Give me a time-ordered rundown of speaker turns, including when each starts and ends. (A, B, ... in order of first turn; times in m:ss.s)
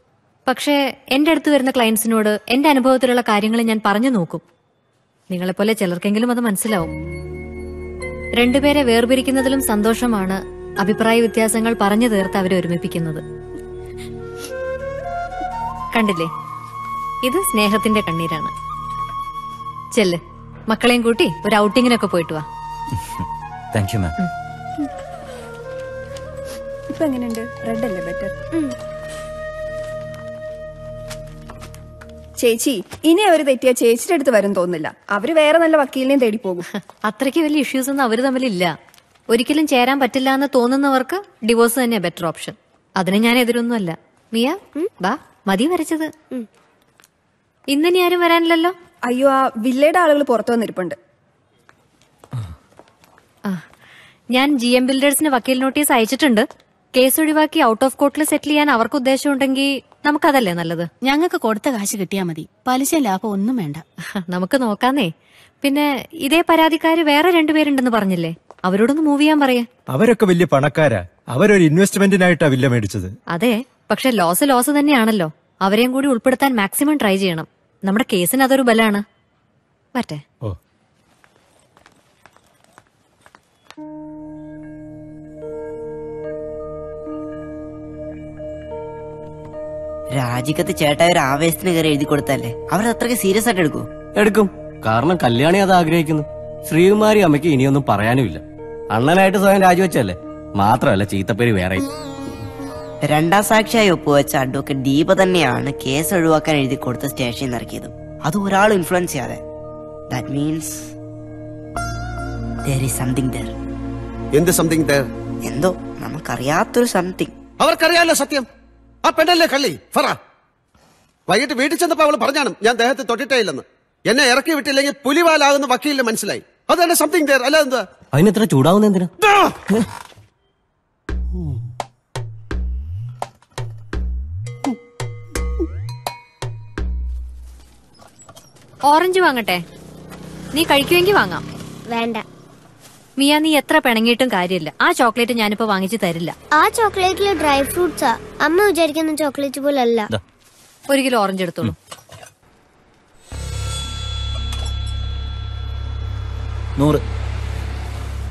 0:00.5-0:04.4 A
0:05.3-0:06.9 A
0:08.4-0:13.2 A
0:15.9-0:16.3 A
0:17.2-0:18.5 A
0:20.7-0:22.4 A
0:27.0-0:28.4 B
0:32.4-0:36.6 B
0:37.0-0:38.7 A
0:39.3-0:46.1 A
0:47.7-0:48.7 A
0:49.1-0:51.0 B
0:54.3-1:00.9 A
1:01.0-1:03.8 C
1:04.2-1:05.1 A
1:05.6-1:09.7 A
1:09.9-1:13.1 D
1:13.3-1:19.0 A
1:20.0-1:20.2 A
1:30.1-1:33.8 E
1:34.2-1:41.9 F
1:43.0-1:49.4 E
1:50.1-1:50.9 E
1:52.7-1:53.5 E
1:54.3-1:55.0 G
1:55.4-1:57.3 E
1:57.6-1:58.5 G
1:59.0-2:00.2 G
2:01.3-2:07.9 G
2:08.1-2:09.1 F
2:09.2-2:09.5 G
2:18.9-2:19.6 A
2:20.5-2:21.4 A
2:21.9-2:22.2 H
2:23.2-2:26.3 A
2:26.5-2:30.1 H
2:30.9-2:31.8 A